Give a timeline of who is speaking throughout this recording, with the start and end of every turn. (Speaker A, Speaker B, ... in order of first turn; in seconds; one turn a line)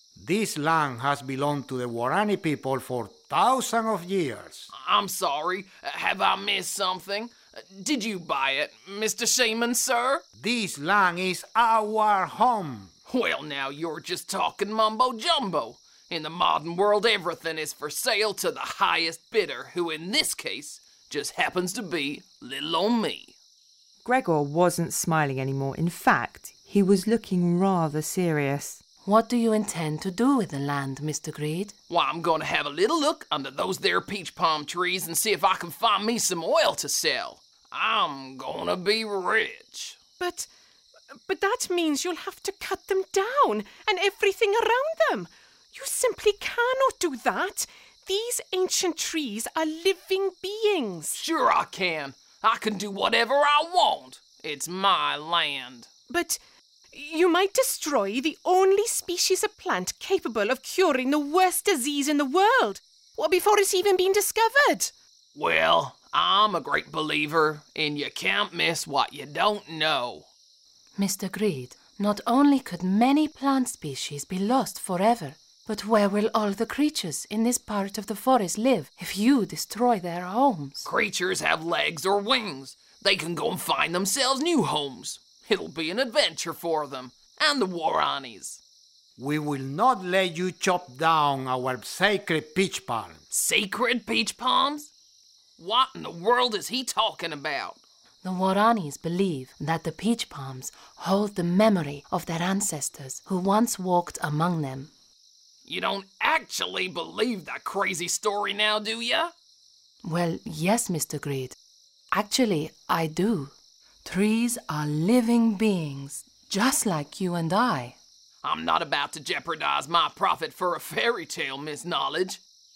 Speaker A: 0.2-4.7
Speaker B: 4.7-10.2
Speaker A: 10.4-12.9
Speaker B: 13.1-23.3
Speaker C: 24.0-28.8
Speaker D: 29.0-31.7
Speaker B: 31.9-40.0
Speaker E: 40.2-40.5
Speaker E: 41.1-51.2
Speaker B: 51.1-55.9
Speaker E: 56.1-56.4
Speaker E: 56.9-64.9
Speaker B: 65.3-70.3
Speaker D: 71.0-80.9
Speaker B: 80.8-88.6
Speaker A: 89.2-93.2
Speaker B: 93.3-94.9
Speaker B: 95.6-97.8
Speaker D: 98.2-104.9
Speaker B: 105.6-109.3
Speaker D: 110.0-111.5
Speaker D: 112.1-113.5
Speaker D: 114.0-118.0
Speaker B: 118.4-122.4